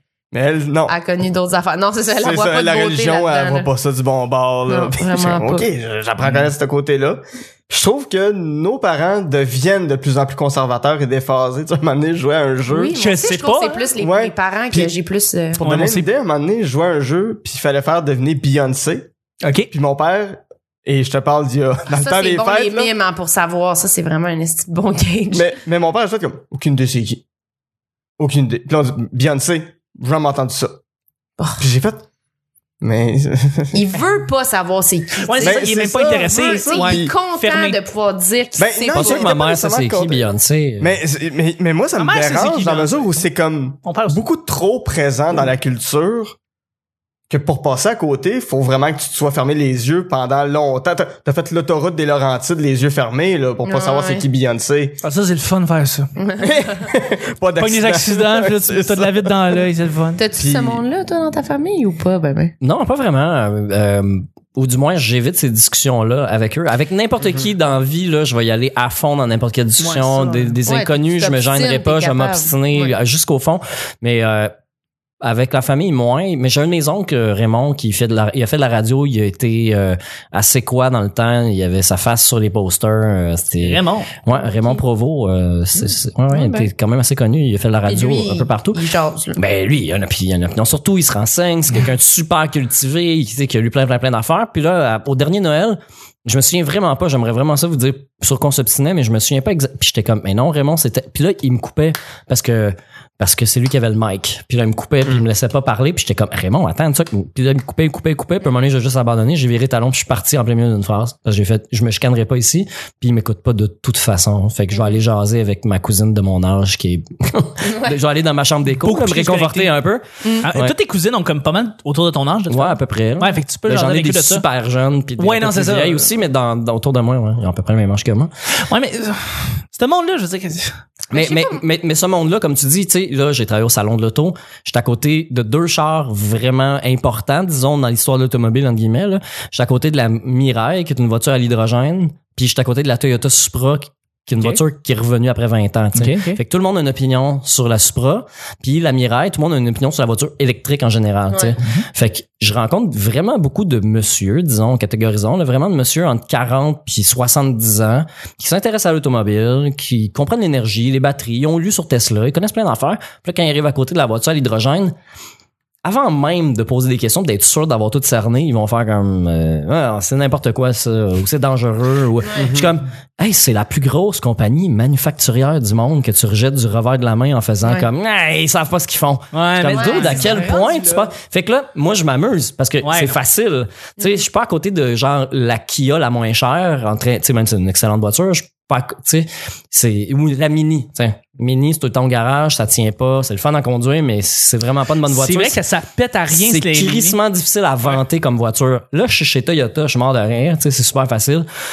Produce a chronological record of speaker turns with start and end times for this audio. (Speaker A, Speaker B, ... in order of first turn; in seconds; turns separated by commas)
Speaker A: 0.3-0.9, Speaker B: 0.9-3.7, Speaker A: 2.1-12.9, Speaker B: 4.7-5.7, Speaker C: 6.2-6.5, Speaker B: 12.7-15.6, Speaker C: 12.9-13.9, Speaker A: 14.0-14.9, Speaker C: 15.5-16.1, Speaker A: 15.6-19.1, Speaker C: 19.4-19.7, Speaker A: 19.7-22.9, Speaker B: 21.9-25.5, Speaker A: 25.3-27.2, Speaker A: 28.2-30.8, Speaker A: 31.6-32.0, Speaker A: 32.8-33.8, Speaker B: 33.7-39.4, Speaker C: 35.2-37.8, Speaker A: 35.4-37.1, Speaker A: 38.6-40.2, Speaker D: 38.9-41.0, Speaker A: 40.8-46.4, Speaker C: 42.0-43.2, Speaker C: 43.8-44.2, Speaker A: 47.3-55.0, Speaker B: 53.6-54.2, Speaker C: 55.0-56.1, Speaker B: 56.2-56.9, Speaker A: 56.4-59.6, Speaker C: 57.6-60.2, Speaker B: 60.2-62.5, Speaker A: 60.3-60.8, Speaker D: 62.6-74.5, Speaker C: 69.8-70.5, Speaker B: 70.7-72.9, Speaker D: 75.2-88.8, Speaker C: 83.6-84.1, Speaker B: 84.3-84.8, Speaker B: 85.9-86.7, Speaker B: 87.8-89.4, Speaker D: 89.3-120.7, Speaker B: 117.6-118.0, Speaker C: 118.8-119.7, Speaker B: 120.2-120.5, Speaker C: 120.4-124.4, Speaker D: 122.5-128.3, Speaker C: 125.2-126.1, Speaker C: 128.6-130.8, Speaker D: 131.1-164.9, Speaker B: 131.1-131.6, Speaker C: 145.9-146.4, Speaker B: 151.3-151.5, Speaker C: 151.6-151.8, Speaker D: 165.8-195.6, Speaker A: 172.3-172.7, Speaker C: 179.3-181.1, Speaker B: 179.7-180.2, Speaker C: 182.8-183.2, Speaker C: 195.1-197.2, Speaker D: 196.3-201.4